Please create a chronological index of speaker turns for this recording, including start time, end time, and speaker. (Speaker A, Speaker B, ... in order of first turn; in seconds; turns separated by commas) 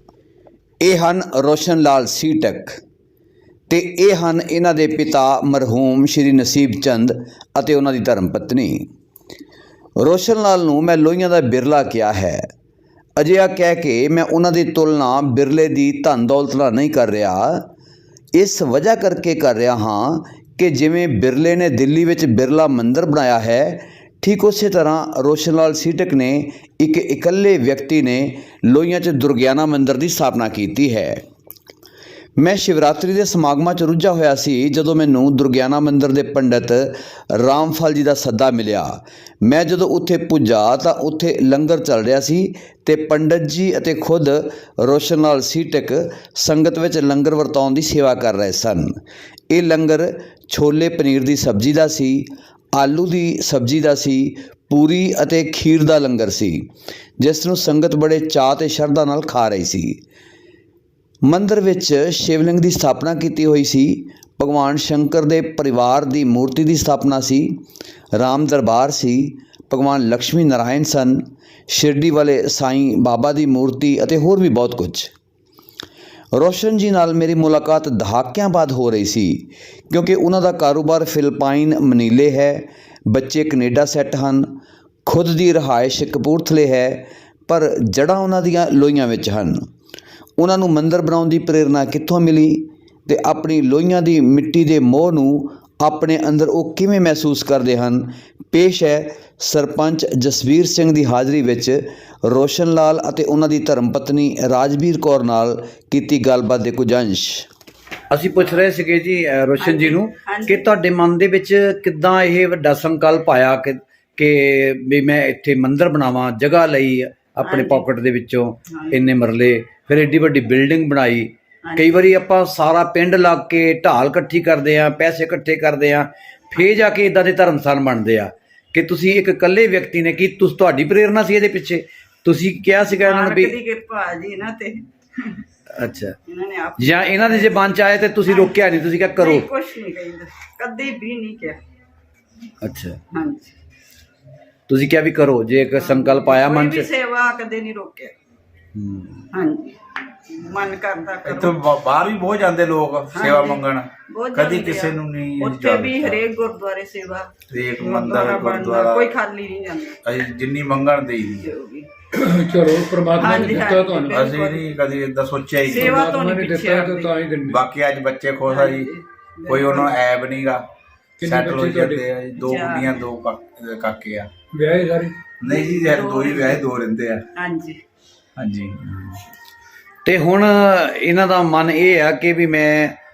Speaker A: 0.8-2.8, Speaker A: 3.7-8.8, Speaker A: 10.0-12.4, Speaker A: 13.2-17.6, Speaker A: 18.3-31.2, Speaker A: 32.4-49.0, Speaker A: 49.5-56.7, Speaker A: 57.2-60.0, Speaker A: 61.2-67.6, Speaker A: 68.1-75.1, Speaker A: 76.3-84.5, Speaker A: 85.0-89.7, Speaker A: 90.4-107.5, Speaker A: 108.1-133.5, Speaker B: 109.6-110.7, Speaker B: 117.4-117.8, Speaker B: 118.7-119.1, Speaker B: 121.6-122.1, Speaker B: 132.9-135.4, Speaker A: 135.7-136.1, Speaker B: 136.3-138.5, Speaker A: 136.8-139.5, Speaker B: 139.2-141.6, Speaker A: 142.6-143.0, Speaker B: 143.1-143.5, Speaker A: 144.7-146.9, Speaker B: 145.8-148.1, Speaker A: 148.7-149.3, Speaker B: 149.3-151.6, Speaker C: 151.2-156.2, Speaker B: 153.1-160.0, Speaker C: 157.5-159.1, Speaker C: 160.0-161.5, Speaker B: 161.4-161.9, Speaker D: 162.1-164.2, Speaker B: 163.2-164.6, Speaker C: 164.1-166.0, Speaker B: 165.7-167.1, Speaker D: 165.7-167.6, Speaker C: 167.5-168.9, Speaker B: 168.5-169.9, Speaker C: 169.5-170.6, Speaker D: 171.2-172.0, Speaker C: 171.2-174.3, Speaker B: 172.4-173.0, Speaker D: 174.5-175.2, Speaker C: 175.4-177.2, Speaker B: 175.4-176.6, Speaker B: 177.3-177.8, Speaker C: 178.4-178.9, Speaker A: 180.0-183.0